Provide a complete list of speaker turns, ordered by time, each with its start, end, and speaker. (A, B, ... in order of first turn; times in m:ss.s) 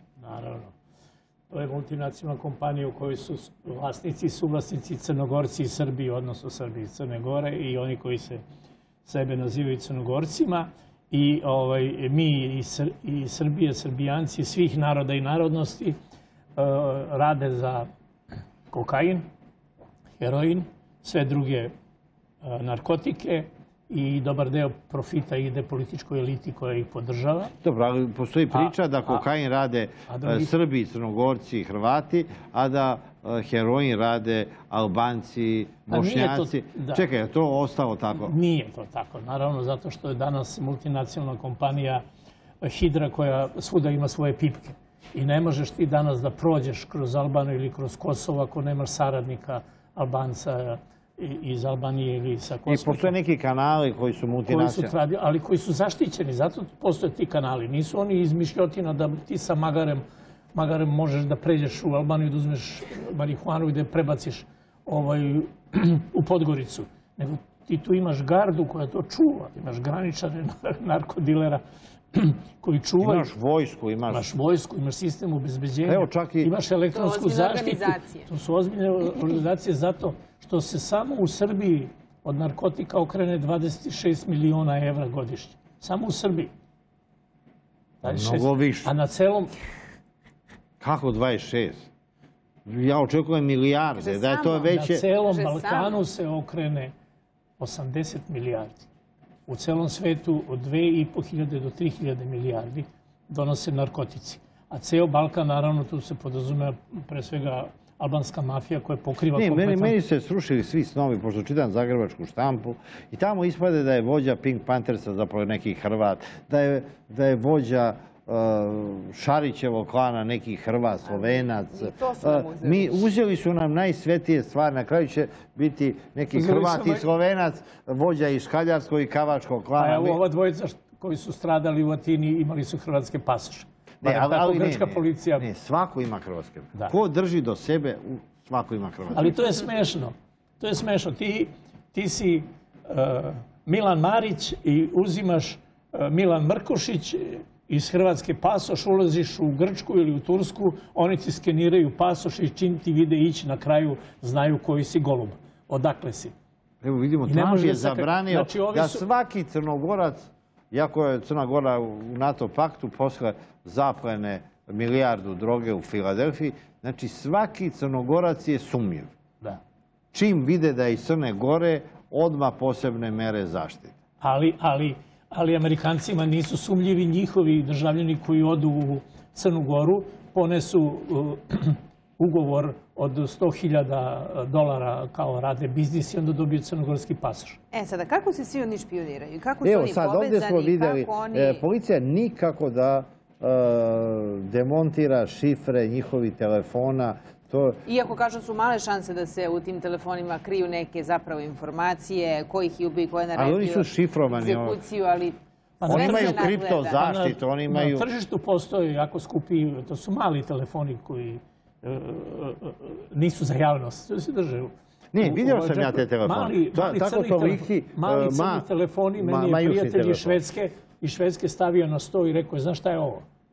0:00.2-0:00.7 A
0:01.5-0:08.4 A
0:09.0-0:16.0 A
0:16.6-0:17.9 A
0:18.7-0:19.2 A
0:20.2-0:21.7 A
0:22.4-0:27.5 A
0:27.6-0:38.3 B
0:28.5-0:29.2 A
0:30.1-0:30.5 A
0:35.9-0:37.0 A
0:38.2-0:42.0 A
0:42.6-0:53.1 A
0:52.7-0:54.9 B
0:54.5-1:13.3 A
1:13.0-1:14.3 B
1:14.1-1:26.5 A
1:15.8-1:16.5 B
1:16.9-1:18.3 C
1:28.0-1:29.5 A
1:28.0-1:28.9 B
1:30.8-1:31.9 B
1:32.6-1:35.0 B
1:34.0-1:36.0 C
1:34.6-1:36.9 A
1:37.6-1:38.9 A
1:39.5-1:50.0 A
1:49.3-2:10.2 B
2:01.1-2:03.0 C
2:06.3-2:07.0 A
2:09.8-2:15.4 A
2:14.0-2:19.4 B
2:19.1-2:36.3 A
2:36.8-2:49.1 B
2:37.3-2:39.0 A
2:50.1-2:53.9 B
2:54.2-3:07.6 A
3:07.7-3:11.6 C
3:09.6-3:17.8 B
3:17.8-3:27.0 C
3:23.3-3:24.8 B
3:25.8-3:43.2 A
3:25.9-3:28.1 B
3:35.1-3:38.6 B
3:39.2-3:40.4 B